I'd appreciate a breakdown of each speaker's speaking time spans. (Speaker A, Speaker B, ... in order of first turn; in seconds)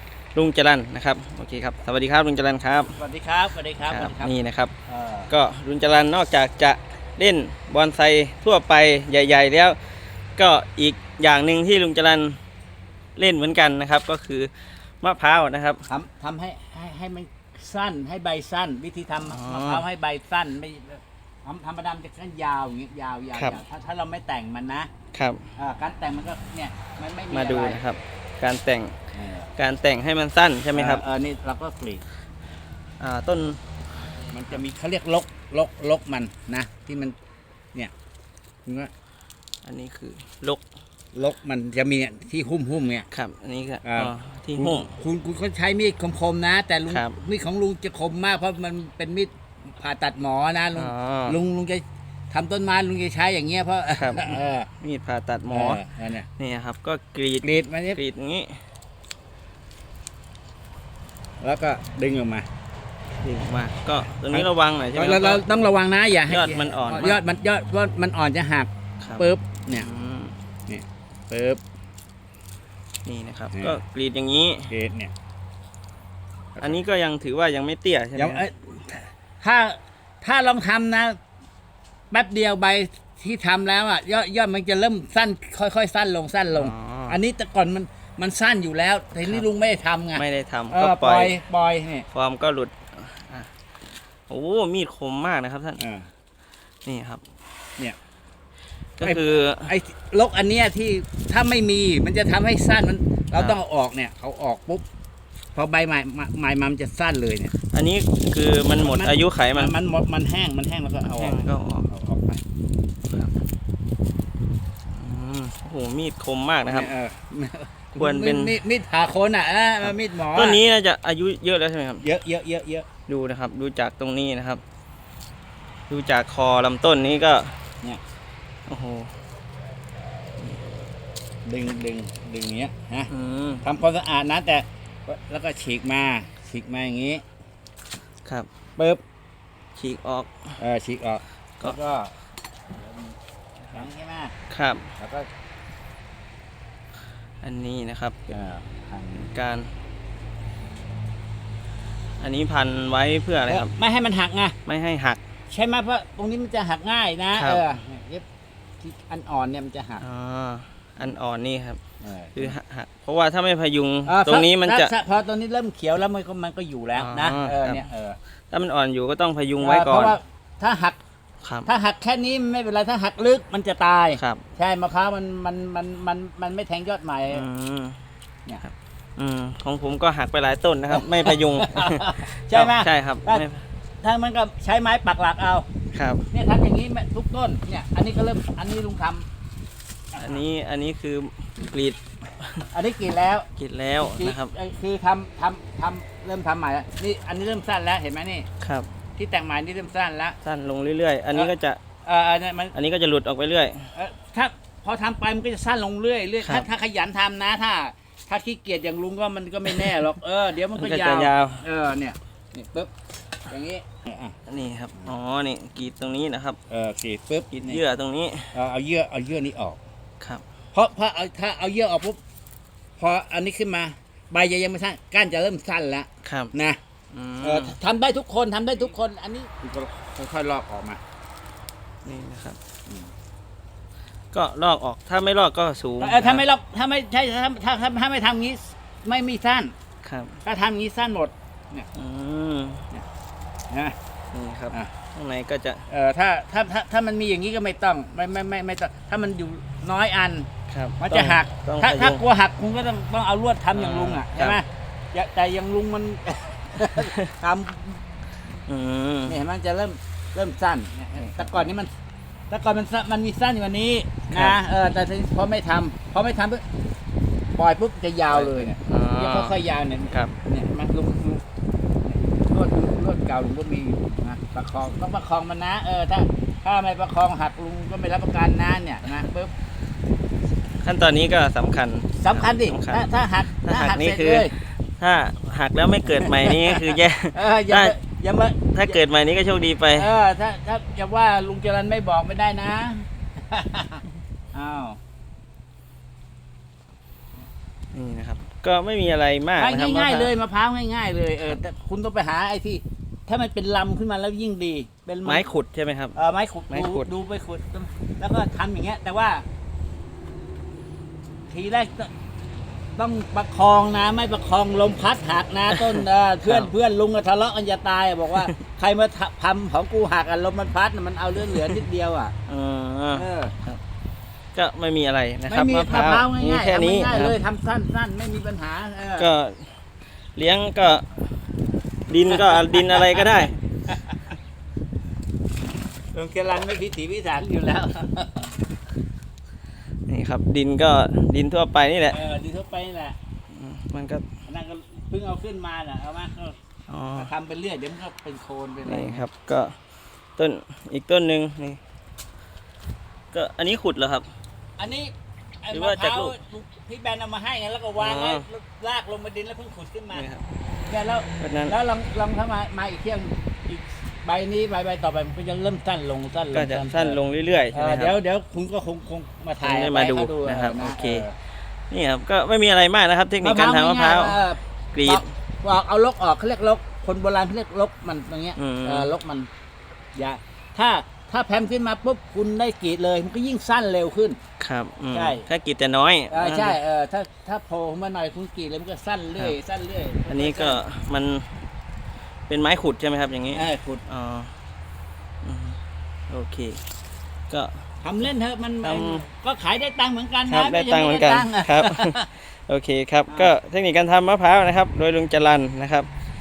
Speaker A: 0.3-3.0, 3.9-4.7, 5.3-12.4, 13.2-15.9, 19.2-19.9, 25.1-25.5, 27.3-29.0, 29.6-31.0, 33.0-33.6, 39.6-40.6, 43.1-44.9, 46.9-47.2, 50.8-51.4, 53.9-55.9, 56.4-58.6, 63.2-65.5, 66.3-67.2, 69.0-70.4, 73.0-74.7, 76.6-78.5, 86.5-87.2, 89.2-89.5, 90.2-91.4, 92.1-93.5, 94.3-95.8, 96.8-97.2, 99.0-99.7, 103.3-103.6, 107.7-109.8, 111.1-111.9, 114.9-116.9, 118.0-118.6, 119.8-122.1, 123.1-124.6, 125.9-127.6, 128.7-129.1, 130.4-130.7, 133.1-133.7, 139.8-140.6, 144.5-144.9, 147.4-148.2, 149.2-149.7, 152.2-153.7, 154.7-155.2, 157.3-157.7, 160.0-161.8, 162.4-164.9, 166.9-167.8, 168.5-170.2, 171.4-171.7, 174.2-174.4, 177.3-178.0, 178.6-183.7, 185.9-186.3, 190.2-192.7, 193.6-194.5, 198.6-198.9, 200.4-201.8, 202.7-203.9, 206.4-206.7, 209.7-210.0, 210.7-211.6, 214.5-216.6, 217.5-218.5, 226.2-226.5, 227.1-227.8, 232.1-232.6, 234.3-236.4, 240.0-240.4, 241.9-242.9, 244.3-245.8, 250.7-252.2, 253.7-254.6, 258.7-259.4, 261.2-261.5, 264.3-264.6, 268.3-269.6, 280.8-283.1, 283.6-288.0, 288.7-290.1, 297.9-300.3, 305.2-306.2, 306.7-307.1, 315.7-316.7, 322.5-323.8, 324.5-327.4, 329.2-329.8, 330.4-331.3, 332.1-333.6, 340.1-342.2, 343.5-344.3, 346.9-347.3, 348.9-349.8, 350.4-351.8, 353.3-354.3, 355.7-356.4, 358.0-358.4, 360.1-360.4, 361.4-361.8, 366.5-368.2, 369.6-371.3, 371.9-375.2, 378.6-379.1, 384.6-386.8, 390.3-391.5, 392.5-394.5, 395.4-395.8, 396.3-396.8, 397.5-397.9, 398.8-399.3, 400.5-406.1
Speaker B: 2.9-4.3, 4.9-5.3, 15.9-24.9, 25.6-27.8, 29.1-29.5, 30.7-32.0, 34.3-37.1, 38.7-38.9, 41.1-43.1, 43.8-54.7, 55.5-56.3, 57.4-58.0, 61.4-62.5, 64.3-69.9, 70.7-71.6, 73.5-73.8, 74.7-75.1, 78.2-81.2, 82.1-92.1, 95.8-96.1, 99.0-104.8, 105.5-107.5, 108.8-112.4, 116.7-120.6, 122.0-122.9, 131.4-133.1, 133.6-137.2, 140.6-142.1, 143.7-144.3, 145.0-145.3, 148.3-149.3, 153.5-154.6, 155.5-158.2, 158.8-160.0, 162.0-162.6, 164.1-168.2, 169.6-171.0, 171.7-177.4, 180.9-183.4, 184.0-185.7, 186.3-189.3, 190.1-190.4, 192.7-193.5, 194.0-198.5, 199.2-200.4, 202.1-202.7, 203.9-212.9, 213.5-214.4, 216.7-217.8, 218.5-219.8, 220.7-222.2, 223.0-226.8, 227.4-231.0, 236.0-239.7, 240.4-241.9, 243.7-244.0, 245.9-250.5, 251.0-258.0, 259.3-261.9, 262.5-266.6, 267.6-271.4, 272.0-279.5, 282.2-284.5, 286.1-289.0, 289.9-294.0, 294.5-295.0, 299.6-305.5, 306.1-309.4, 311.5-312.1, 313.0-322.3, 323.1-323.5, 325.5-329.3, 332.3-333.3, 333.9-334.2, 336.1-338.5, 342.1-343.2, 344.5-346.6, 347.1-349.3, 354.8-360.3, 360.9-367.2, 367.7-371.3, 373.4-379.5, 380.1-384.4, 385.1-385.5, 386.3-390.8, 393.5-394.0, 398.0-402.3, 403.3-403.5